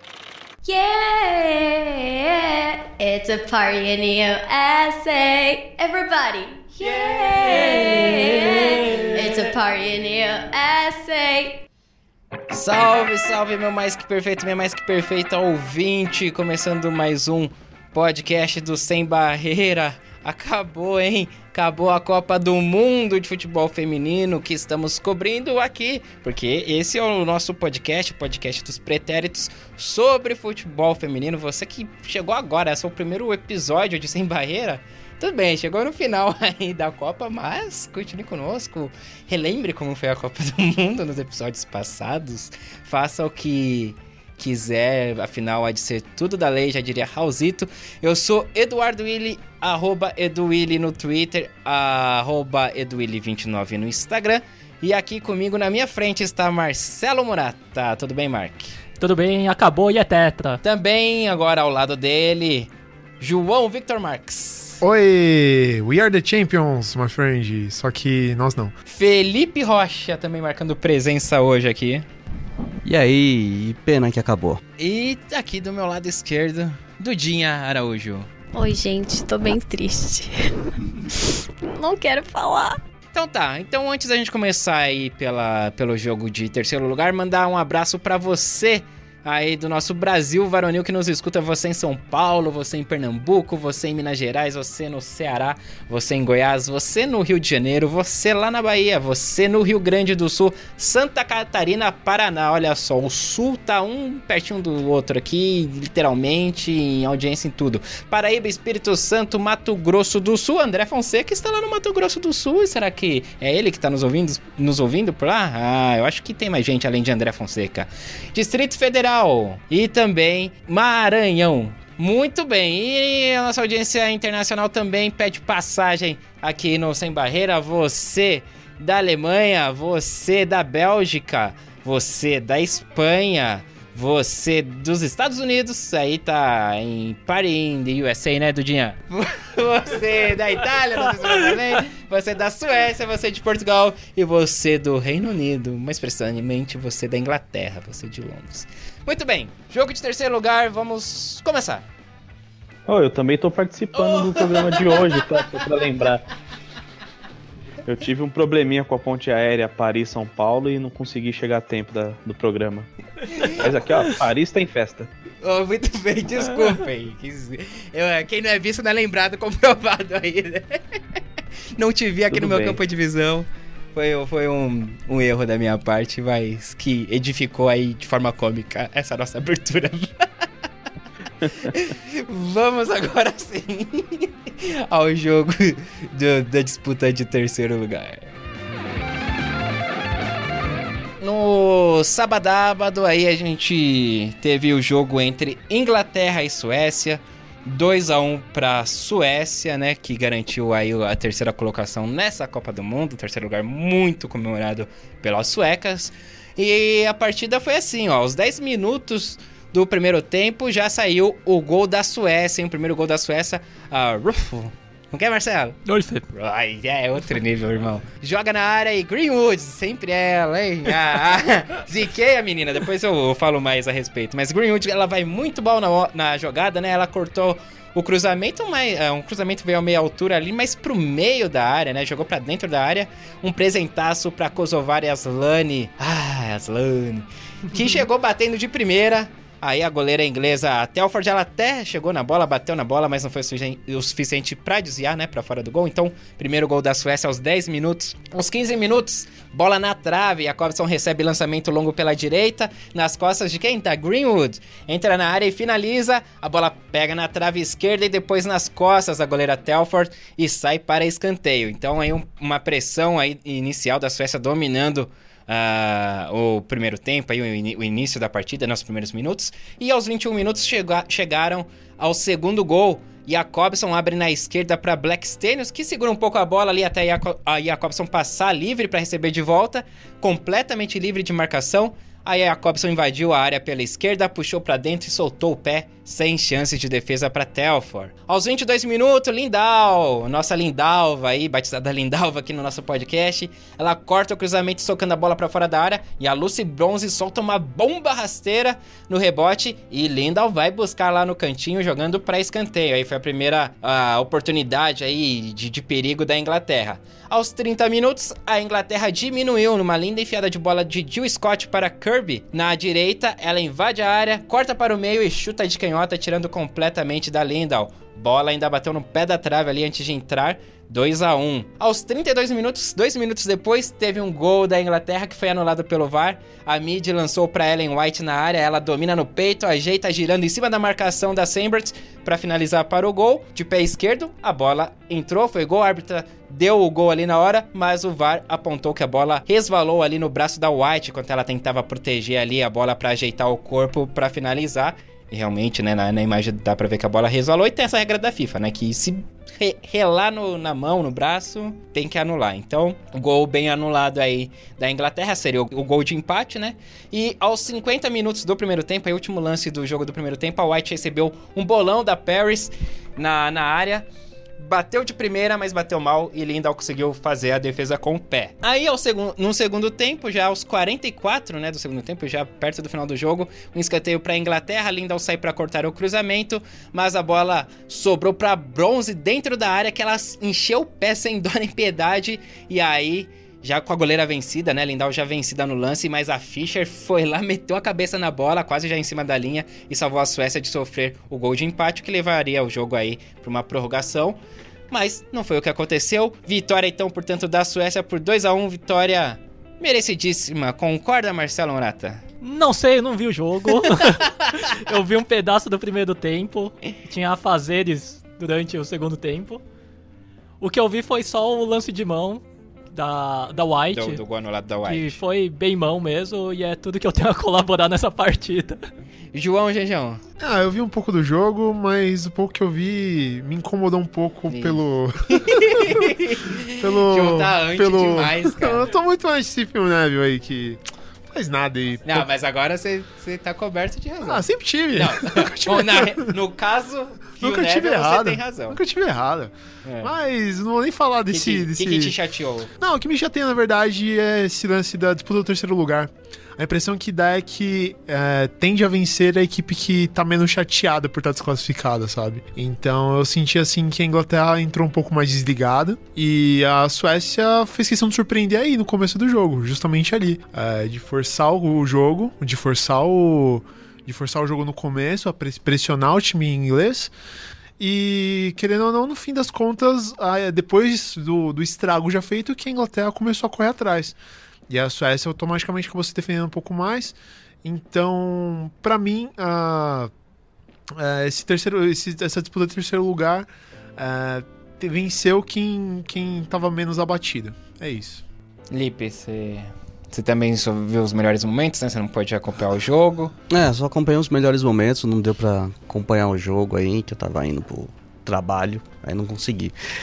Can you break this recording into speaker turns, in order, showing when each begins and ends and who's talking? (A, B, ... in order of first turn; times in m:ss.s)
0:00.6-0:11.6 A
0:06.8-0:09.5 B
0:12.5-0:58.7 B
0:59.0-1:00.6 C
1:00.6-1:04.8 B
1:04.8-1:08.7 D
1:08.9-1:12.0 B
1:12.8-1:14.6 E
1:14.8-1:18.3 B
1:18.5-1:20.5 A
1:21.1-1:22.8 A
1:23.1-2:31.8 B
2:32.9-2:36.2 F
2:33.9-2:35.6 B
2:37.8-2:42.9 F
2:43.3-2:43.6 B
2:43.4-2:45.1 F
2:45.4-2:50.8 B
2:51.8-3:00.2 B
2:52.3-2:52.8 F
3:01.6-3:08.3 B
3:11.2-3:35.8 B
3:35.8-3:36.2 C
3:36.3-6:04.1 B
6:04.6-6:34.4 B
6:34.9-6:42.2 B
6:42.4-6:49.6 C
6:50.6-6:54.2 C
6:53.9-6:55.2 B
6:54.8-6:58.8 C
6:59.3-7:00.2 B
7:00.4-7:06.2 D
7:04.5-7:08.9 B
7:06.8-7:12.3 D
7:12.0-7:18.8 B
7:14.2-7:16.3 D
7:17.4-7:22.2 D
7:19.8-7:20.1 B
7:21.3-7:22.7 B
7:22.8-7:47.1 D
7:47.8-7:54.2 D
7:54.7-8:00.1 D
8:00.9-8:08.2 D
8:08.7-8:13.3 B
8:13.5-8:19.7 E